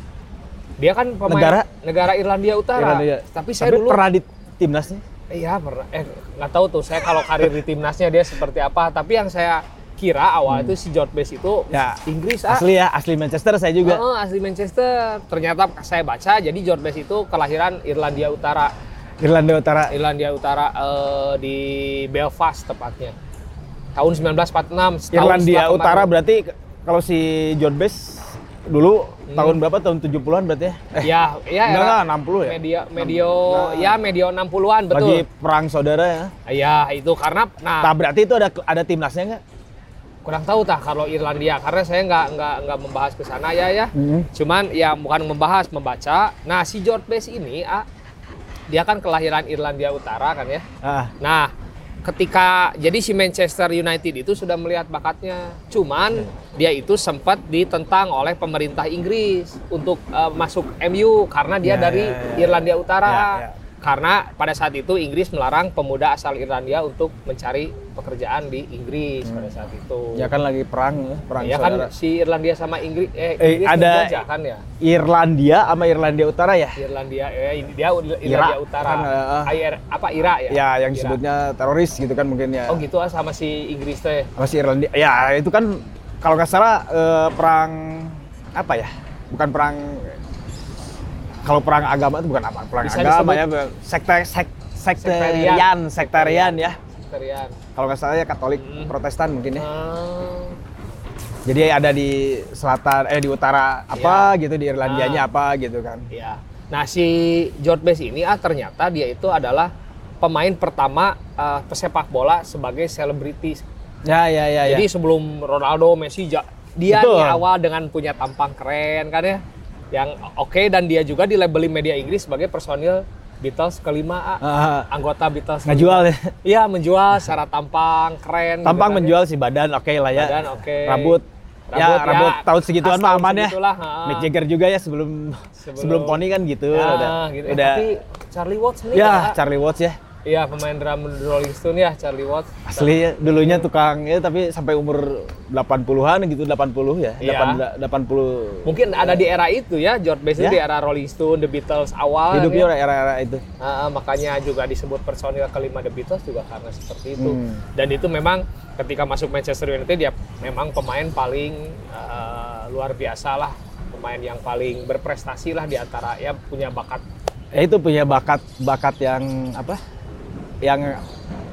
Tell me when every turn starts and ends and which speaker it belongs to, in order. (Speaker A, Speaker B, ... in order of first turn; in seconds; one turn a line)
Speaker A: 0.8-4.0
Speaker B: 1.3-1.7
Speaker B: 2.8-5.0
Speaker A: 5.3-12.6
Speaker B: 10.5-10.7
Speaker B: 11.7-14.0
Speaker A: 13.8-18.7
Speaker B: 19.2-19.9
Speaker A: 19.9-23.1
Speaker A: 23.9-26.1
Speaker B: 25.1-31.1
Speaker A: 29.3-29.6
Speaker A: 31.0-35.2
Speaker B: 31.6-34.0
Speaker B: 34.9-36.3
Speaker A: 36.5-37.9
Speaker B: 37.8-39.4
Speaker A: 40.2-47.9
Speaker B: 43.9-44.3
Speaker A: 48.7-50.6
Speaker B: 50.8-51.1
Speaker A: 51.2-51.5
Speaker A: 52.0-70.3
Speaker B: 61.6-63.5
Speaker B: 70.2-71.9
Speaker A: 71.4-74.6
Speaker B: 73.4-74.2
Speaker B: 74.8-76.8
Speaker A: 76.8-81.2
Speaker B: 78.2-79.5
Speaker B: 80.5-82.8
Speaker A: 82.7-84.3
Speaker B: 84.4-90.2
Speaker B: 91.4-96.8
Speaker A: 92.8-93.4
Speaker A: 95.0-97.6
Speaker B: 97.8-99.6
Speaker A: 98.5-98.9
Speaker A: 99.6-100.6
Speaker B: 101.5-106.1
Speaker A: 103.9-104.3
Speaker A: 104.8-105.2
Speaker A: 106.1-113.6
Speaker B: 114.0-114.9
Speaker A: 114.6-129.2
Speaker B: 116.8-117.4
Speaker B: 124.4-124.9
Speaker B: 125.7-126.3
Speaker B: 128.6-131.2
Speaker A: 130.2-131.2
Speaker A: 131.7-134.3
Speaker B: 131.7-137.8
Speaker A: 135.6-136.2
Speaker A: 136.7-139.4
Speaker B: 138.9-139.9
Speaker A: 140.2-143.7
Speaker B: 142.7-149.2
Speaker A: 147.2-147.6
Speaker A: 148.6-152.7
Speaker B: 152.3-153.4
Speaker A: 153.6-167.0
Speaker B: 157.2-157.6
Speaker B: 167.5-169.8
Speaker B: 170.6-171.0